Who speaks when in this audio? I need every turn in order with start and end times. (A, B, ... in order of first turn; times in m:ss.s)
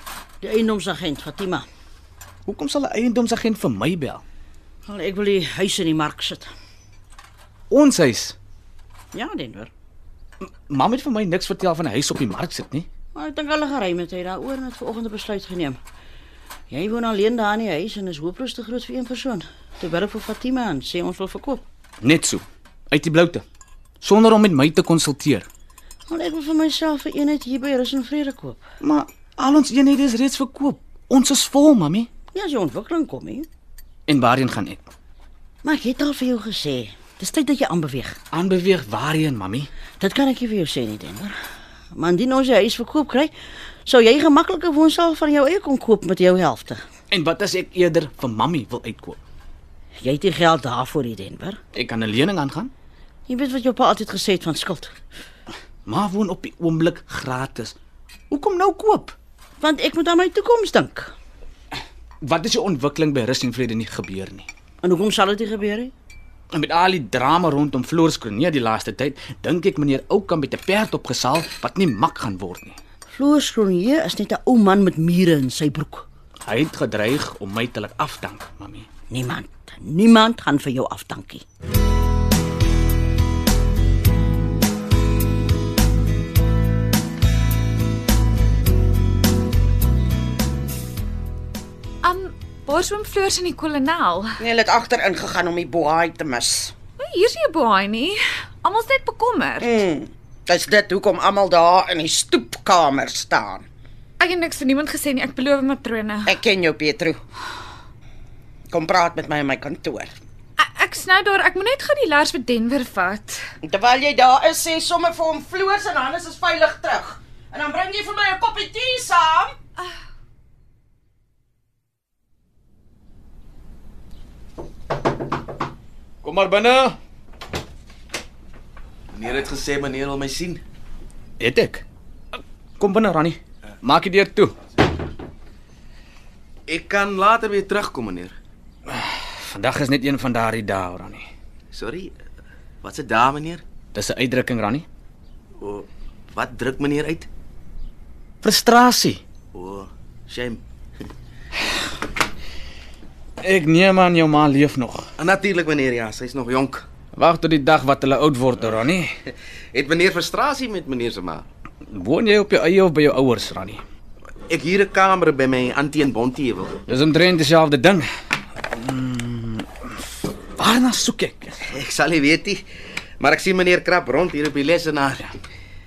0:00.4-0:01.7 A
0:02.5-0:04.2 B
0:04.9-0:06.5 A
0:07.7-0:08.4 B
0:09.1-0:09.7 A
0:10.4-0:12.9 B
0:13.2-0:15.8 A
0:16.7-0:21.6 A
0:22.0-0:23.4 B
0:24.0-0:25.5 B
0:26.1-0:28.6 A
0:28.8-0:32.1 B
0:32.3-0:33.5 A
0:34.1-0:34.9 B
0:35.6-0:38.2 A
0:38.3-0:39.7 B
0:40.0-0:41.3 A
0:42.0-0:43.3 A
0:43.9-0:46.8 A
0:47.1-0:49.2 B
0:50.0-0:51.6 A
0:51.7-0:52.7 B
0:53.3-0:55.0 A
0:55.9-0:57.8 B
0:58.3-0:59.2 B
0:59.6-1:01.1 A
1:02.2-1:04.5 B
1:04.8-1:05.9 A
1:06.5-1:12.8 B
1:13.1-1:16.1 A
1:16.5-1:18.9 B
1:19.1-1:21.4 A
1:32.0-1:34.4 C
1:34.4-1:36.7 D
1:37.0-1:39.7 C
1:39.6-1:43.7 D
1:44.2-1:46.4 C
1:46.3-1:47.2 D
1:48.7-1:50.1 D
1:50.6-1:53.4 C
1:53.6-1:59.6 D
2:06.2-2:07.0 B
2:09.1-2:10.6 E
2:11.4-2:11.8 B
2:12.8-2:14.6 B
2:16.7-2:18.3 E
2:18.9-2:21.3 B
2:21.7-2:22.1 E
2:22.8-2:23.6 E
2:23.9-2:24.9 B
2:25.6-2:27.3 E
2:28.4-2:29.2 B
2:29.5-2:30.6 E
2:33.4-2:35.1 B
2:35.2-2:36.8 E
2:37.1-2:39.1 B
2:39.7-2:41.5 E
2:41.9-2:43.8 B
2:44.5-2:46.8 E
2:46.9-2:48.1 B
2:48.7-2:49.9 B
2:50.6-2:51.6 B
2:51.7-2:52.6 E
2:53.2-2:55.3 E